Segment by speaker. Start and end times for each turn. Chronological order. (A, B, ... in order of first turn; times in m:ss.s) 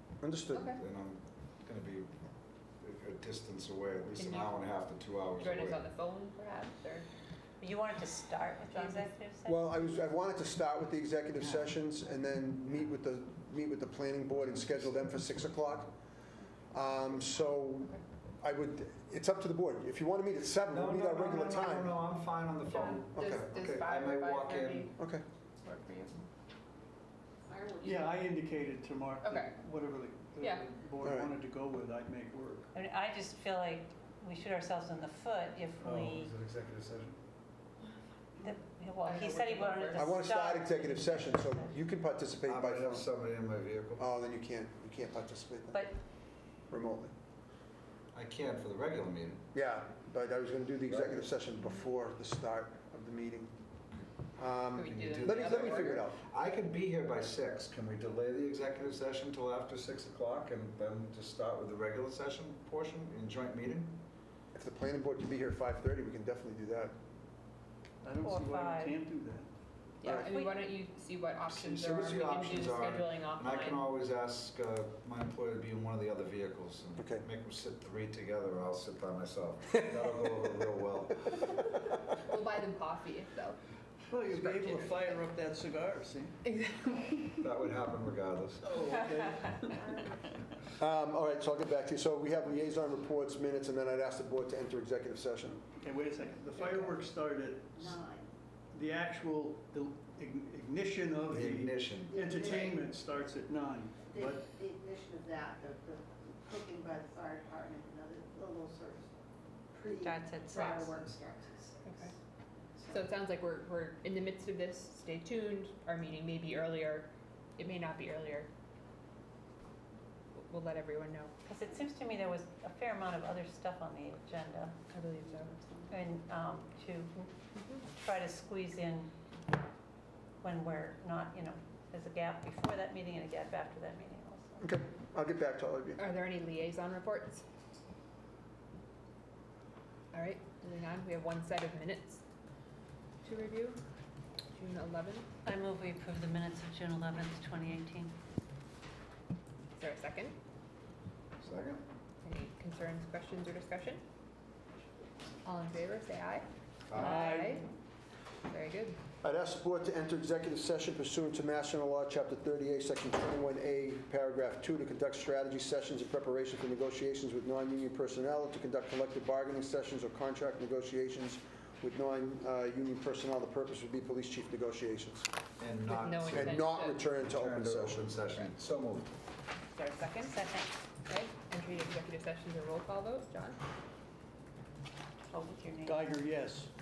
0:00.2-0:00.7 A
0:00.5-0:00.8 B
0:00.8-0:02.1 C
0:02.8-0:05.8 C
0:04.2-0:04.7 B
0:05.4-0:07.1 B
0:07.6-0:09.9 D
0:08.7-0:09.1 B
0:09.5-0:15.9 A
0:16.7-0:22.0 A
0:20.7-0:24.9 C
0:22.7-0:24.9 B
0:23.1-0:23.5 A
0:25.0-0:25.2 A
0:25.6-0:26.2 B
0:27.5-0:28.1 E
0:27.8-0:32.7 F
0:29.2-0:29.6 B
0:30.4-0:30.7 B
0:31.0-0:31.3 A
0:32.7-0:36.3 D
0:35.8-0:36.2 F
0:36.1-0:37.2 C
0:38.4-0:41.7 D
0:39.0-0:40.2 B
0:40.0-0:43.1 A
0:42.4-0:44.1 C
0:44.0-0:45.9 A
0:45.7-0:46.0 D
0:46.7-0:47.1 A
0:48.1-0:49.4 C
0:49.5-0:53.5 A
0:50.9-0:51.2 C
0:54.4-0:56.2 A
0:54.7-0:56.0 B
0:54.8-1:04.0 C
1:04.5-1:06.9 A
1:08.0-1:09.5 F
1:08.2-1:09.0 D
1:10.0-1:13.9 B
1:10.1-1:10.6 D
1:11.5-1:21.8 C
1:17.0-1:17.2 A
1:22.1-1:23.6 B
1:24.1-1:26.4 F
1:24.2-1:25.2 B
1:26.5-1:27.2 B
1:27.4-1:28.6 C
1:28.6-1:29.9 F
1:30.8-1:35.6 A
1:35.8-1:38.0 F
1:37.8-1:38.3 E
1:38.7-1:44.5 F
1:41.3-1:42.2 C
1:42.1-1:42.8 E
1:44.1-1:49.1 E
1:49.7-1:52.1 E
1:50.0-1:50.9 D
1:50.6-1:51.0 B
1:51.8-1:52.1 B
1:52.9-1:58.5 B
2:00.4-2:01.3 B
2:01.4-2:04.8 D
2:04.9-2:05.8 B
2:05.9-2:07.3 D
2:07.6-2:07.8 B
2:07.9-2:09.1 D
2:10.4-2:14.6 D
2:14.6-2:16.0 A
2:16.0-2:17.4 B
2:20.1-2:22.2 B
2:23.2-2:23.8 B
2:24.5-2:25.3 B
2:25.4-2:28.2 D
2:29.8-2:30.4 B
2:31.4-2:31.8 C
2:32.2-2:34.0 B
2:35.4-2:37.7 B
2:37.0-2:37.6 F
2:38.5-2:39.0 B
2:39.2-2:55.3 A
2:55.6-2:59.1 C
2:55.9-2:57.0 B
2:56.3-2:58.0 A
2:59.7-3:00.4 B
3:00.3-3:00.8 D
3:01.1-3:03.6 B
3:05.3-3:06.2 D
3:05.8-3:06.7 F